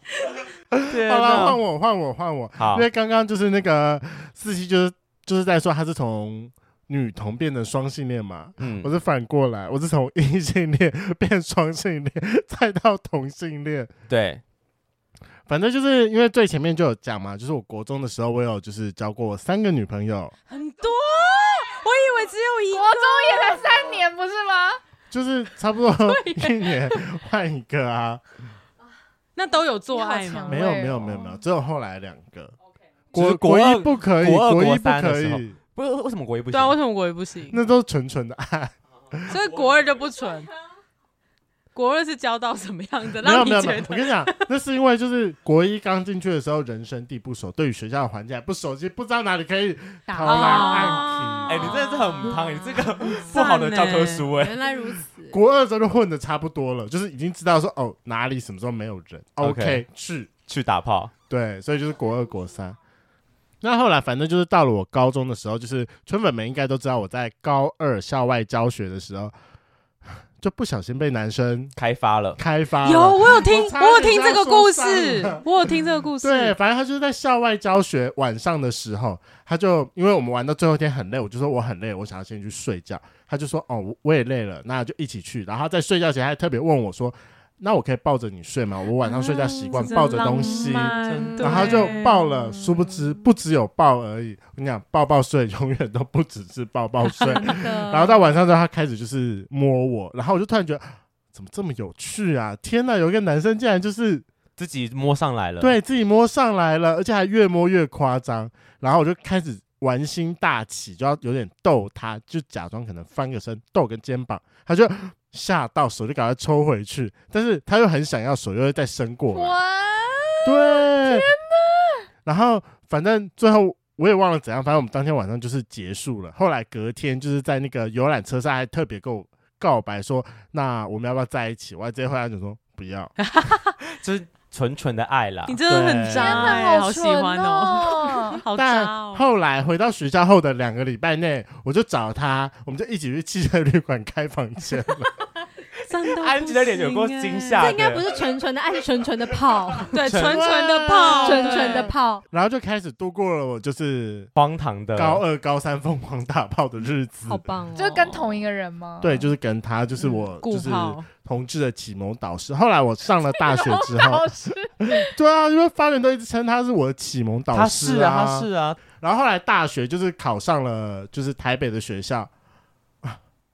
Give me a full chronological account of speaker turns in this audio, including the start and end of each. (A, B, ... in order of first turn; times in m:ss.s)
0:00.7-0:13.9 A
0:00.9-0:01.6 B
0:02.6-0:02.8 B
0:08.6-0:08.9 B
0:14.1-0:14.4 B
0:15.5-0:20.3 A
0:20.5-0:23.7 C
0:22.7-0:24.8 D
0:25.1-0:28.2 A
0:26.1-0:27.1 C
0:29.3-0:30.6 C
0:29.9-0:31.4 E
0:30.5-0:32.5 A
0:33.1-0:35.6 A
0:33.1-0:36.8 B
0:36.5-0:37.6 C
0:37.5-0:39.3 A
0:39.3-0:40.5 C
0:41.7-0:44.5 C
0:43.2-0:51.8 A
0:50.1-0:51.6 E
0:50.2-0:52.4 C
0:51.5-0:54.6 B
0:52.2-0:53.6 E
0:53.1-0:54.3 C
0:54.2-0:55.4 E
0:55.3-1:00.3 A
0:59.4-0:59.8 B
1:00.5-1:01.1 B
1:01.3-1:02.8 A
1:03.6-1:09.3 A
1:10.4-1:11.7 A
1:11.8-1:12.4 B
1:12.4-1:44.2 A
1:12.8-1:16.5 C
1:29.0-1:32.2 C
1:29.7-1:33.0 E
1:31.1-1:31.9 B
1:37.2-1:38.4 E
1:44.6-1:45.8 B
1:45.6-1:59.6 A
1:59.4-2:00.2 D
2:00.4-2:01.3 A
2:01.0-2:02.1 D
2:02.2-2:13.1 A
2:13.2-2:13.7 C
2:13.9-2:15.6 B
2:15.5-2:19.2 C
2:15.7-2:16.6 A
2:16.1-2:18.4 D
2:18.5-2:25.1 A
2:25.8-2:27.7 C
2:26.0-2:28.0 B
2:27.6-2:30.0 E
2:29.9-2:31.9 C
2:30.1-2:30.4 B
2:30.2-2:34.3 A
2:31.2-2:32.2 E
2:34.3-2:35.2 B
2:34.9-2:37.4 A
2:37.3-2:38.4 E
2:37.7-2:39.3 D
2:39.0-2:52.3 A
2:40.0-2:41.1 C
2:43.3-2:45.0 D
2:47.5-2:48.8 B